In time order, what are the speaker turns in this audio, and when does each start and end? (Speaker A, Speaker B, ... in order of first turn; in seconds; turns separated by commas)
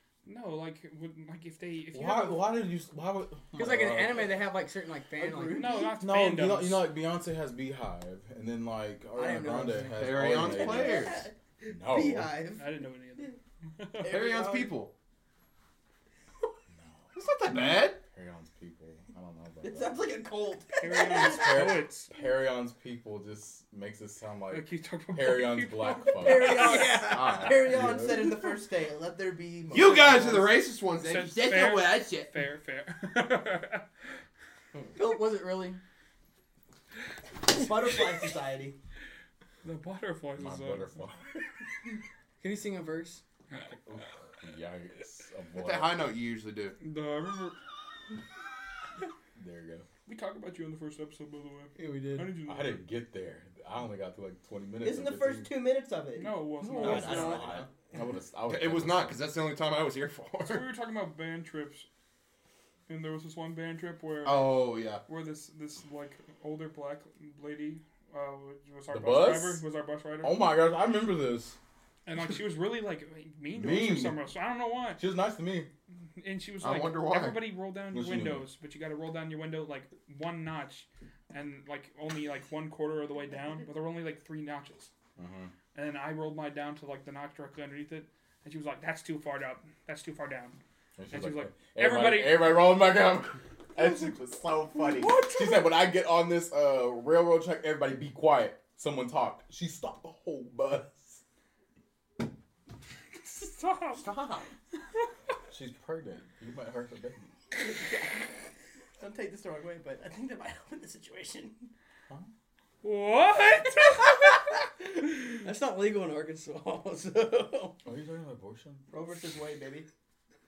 Speaker A: 0.2-2.5, Speaker B: 1.9-4.3, Speaker C: 3.5-5.9, Speaker D: 5.1-5.9, Speaker A: 5.5-6.8, Speaker B: 6.0-11.1, Speaker C: 9.1-11.1, Speaker E: 9.9-11.2, Speaker D: 10.4-13.4, Speaker B: 11.7-12.3, Speaker A: 12.6-14.2, Speaker E: 14.0-14.9, Speaker D: 14.0-14.7, Speaker B: 16.7-20.1, Speaker E: 17.1-18.0, Speaker D: 19.6-21.5, Speaker A: 20.8-22.1, Speaker B: 21.1-28.4, Speaker A: 24.5-26.8, Speaker D: 26.2-32.2, Speaker C: 26.4-27.8, Speaker E: 29.7-31.6, Speaker A: 31.0-33.8, Speaker C: 34.9-35.8, Speaker D: 37.4-38.8, Speaker A: 39.6-40.9, Speaker B: 40.4-41.2, Speaker C: 42.4-43.2, Speaker B: 43.8-46.1, Speaker E: 45.5-46.8, Speaker A: 46.8-47.5, Speaker B: 49.4-49.9, Speaker A: 50.0-52.8, Speaker C: 51.8-52.4, Speaker B: 52.5-55.5, Speaker D: 54.8-57.7, Speaker A: 56.2-57.4, Speaker C: 56.6-57.5, Speaker E: 56.8-57.6, Speaker B: 56.9-57.4, Speaker B: 57.9-59.2, Speaker E: 58.5-60.7, Speaker A: 60.4-61.9, Speaker A: 62.9-64.5, Speaker E: 64.2-65.0, Speaker A: 65.0-70.5, Speaker B: 68.9-69.6, Speaker B: 70.2-71.6, Speaker A: 72.0-75.0, Speaker B: 73.5-74.2, Speaker B: 75.0-75.7, Speaker A: 76.2-84.9, Speaker E: 76.6-77.5, Speaker B: 77.9-78.5, Speaker B: 85.2-85.5, Speaker A: 85.7-90.6, Speaker B: 91.0-101.2, Speaker A: 91.1-92.6, Speaker A: 94.8-95.7, Speaker A: 103.2-104.1, Speaker E: 103.9-104.5, Speaker B: 105.5-107.3, Speaker D: 107.5-108.3, Speaker D: 109.0-111.7, Speaker A: 112.8-114.3, Speaker A: 115.2-115.5, Speaker C: 115.4-117.8, Speaker B: 117.8-118.8, Speaker D: 118.9-119.9